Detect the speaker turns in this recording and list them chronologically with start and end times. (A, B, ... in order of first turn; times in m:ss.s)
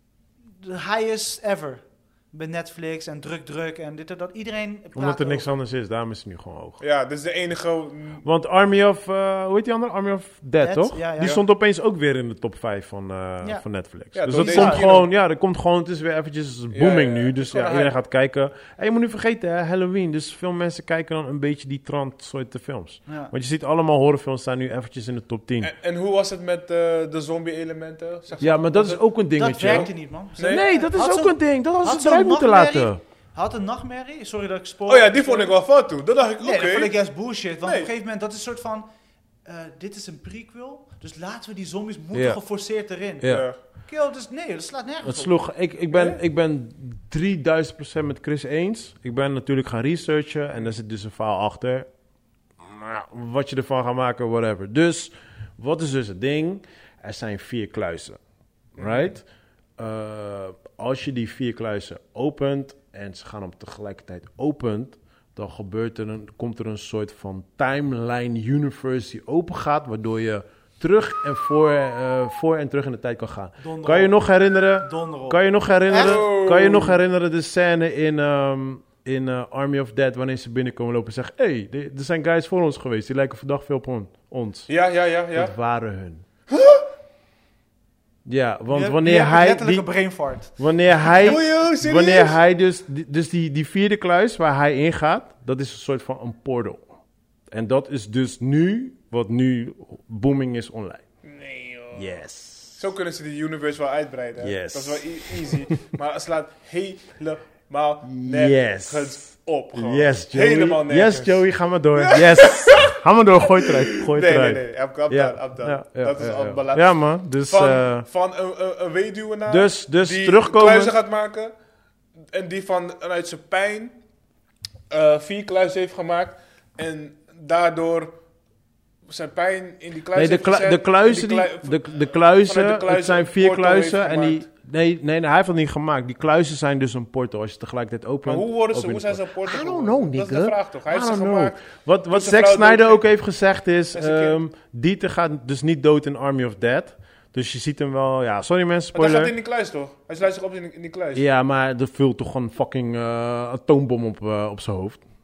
0:00.6-0:05.5 A
0:05.0-0:06.8 B
0:06.8-0:08.2 C
0:08.2-0:25.7 B
0:10.6-0:11.4 A
0:14.2-0:15.1 C
0:14.3-0:14.9 A
0:16.7-0:17.9 C
0:23.1-0:23.3 A
0:25.6-0:30.7 C
0:28.4-0:33.0 B
0:29.4-0:35.5 A
0:34.9-0:37.0 C
0:36.4-0:38.9 A
0:37.6-0:37.9 C
0:39.4-0:45.4 A
0:42.1-0:42.4 B
0:43.2-0:43.5 B
0:43.2-0:43.6 C
0:45.0-0:51.9 B
0:45.9-0:46.2 C
0:52.6-0:58.2 B
0:58.8-0:59.2 B
0:58.8-0:59.1 C
0:59.8-1:24.7 B
1:13.6-1:14.2 A
1:14.8-1:16.2 A
1:16.0-1:17.0 C
1:24.7-1:25.5 C
1:25.3-1:26.2 B
1:26.5-1:26.8 C
1:28.2-1:29.9 B
1:28.7-1:31.4 A
1:30.6-1:36.8 B
1:31.1-1:32.4 C
1:37.5-1:41.0 B
1:41.2-1:42.1 C
1:41.9-1:42.8 B
1:42.8-2:01.5 C
1:44.4-1:45.8 B
1:48.1-1:49.2 B
1:49.7-1:58.1 B
1:59.5-2:01.0 B
2:02.3-2:04.0 C
2:04.9-2:08.2 C
2:09.1-2:14.4 C
2:10.1-2:29.3 B
2:18.3-2:23.1 C
2:23.9-2:24.4 C
2:28.9-2:31.2 C
2:31.1-2:35.0 B